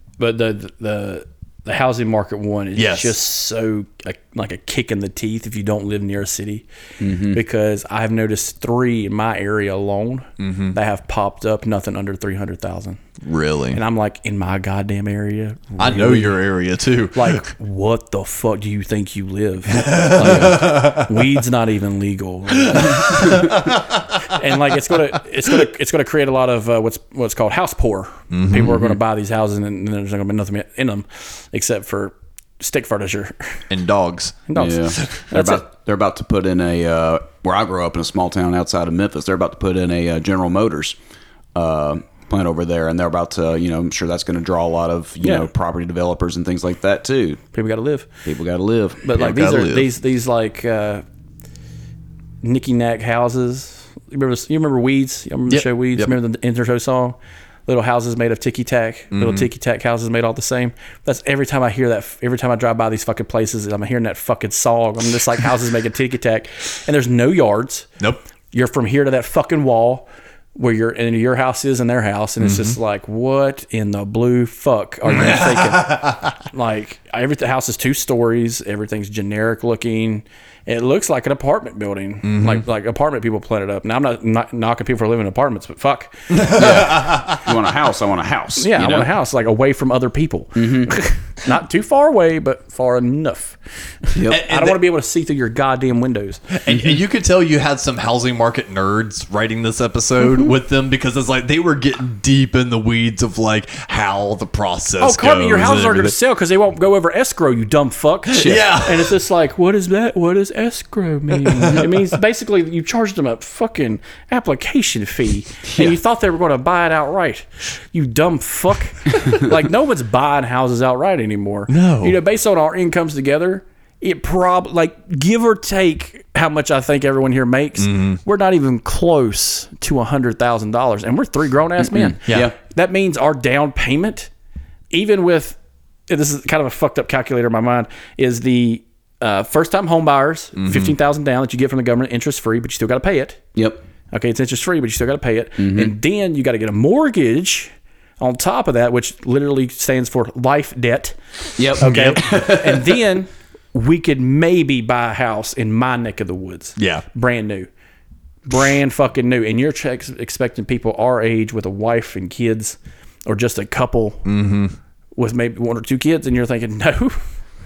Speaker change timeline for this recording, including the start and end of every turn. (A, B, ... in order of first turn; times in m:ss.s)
0:00.2-0:06.7 A
0:02.8-0:03.1 B
0:07.0-0:07.4 C
0:07.3-0:13.0 A
0:10.4-0:10.8 B
0:13.2-0:13.8 B
0:13.7-0:16.4 A
0:15.8-0:17.5 B
0:17.2-0:23.6 A
0:19.7-0:21.2 B
0:22.7-0:23.8 B
0:24.3-0:33.6 A
0:28.3-0:28.7 B
0:28.5-0:29.0 C
0:33.7-0:34.4 B
0:34.5-0:35.6 A
0:34.6-0:41.0 C
0:41.6-0:47.4 C
0:45.2-0:45.5 A
0:47.5-0:48.1 A
0:48.2-0:49.0 C
0:49.0-0:51.0 A
0:49.2-0:49.9 B
0:52.4-0:57.2 A
0:55.5-0:56.1 B
0:57.7-1:07.9 A
0:59.1-0:59.5 B
1:08.5-1:26.2 A
1:12.4-1:12.8 B
1:15.1-1:16.3 B
1:22.2-1:22.6 B
1:26.3-1:27.4 B
1:26.5-1:29.1 C
1:28.6-1:33.6 A
1:30.6-1:31.0 C
1:34.1-1:34.4 C
1:34.3-1:36.4 A
1:34.3-1:34.8 B
1:36.5-1:46.2 B
1:36.7-1:37.0 C
1:45.0-2:14.3 A
1:48.3-1:49.1 B
1:48.4-1:48.7 C
1:55.6-1:56.0 C
2:01.7-2:02.2 B
2:07.8-2:08.2 B
2:12.0-2:12.5 C
2:14.9-2:15.6 A
2:16.1-2:23.4 A
2:20.6-2:20.9 B
2:23.6-2:23.8 C
2:24.1-2:31.2 A
2:25.6-2:25.9 C
2:31.6-2:33.0 C
2:31.7-2:37.7 A
2:31.8-2:32.5 B
2:36.8-2:37.0 B
2:38.5-2:44.2 A
2:44.2-2:44.8 B
2:45.2-2:47.2 A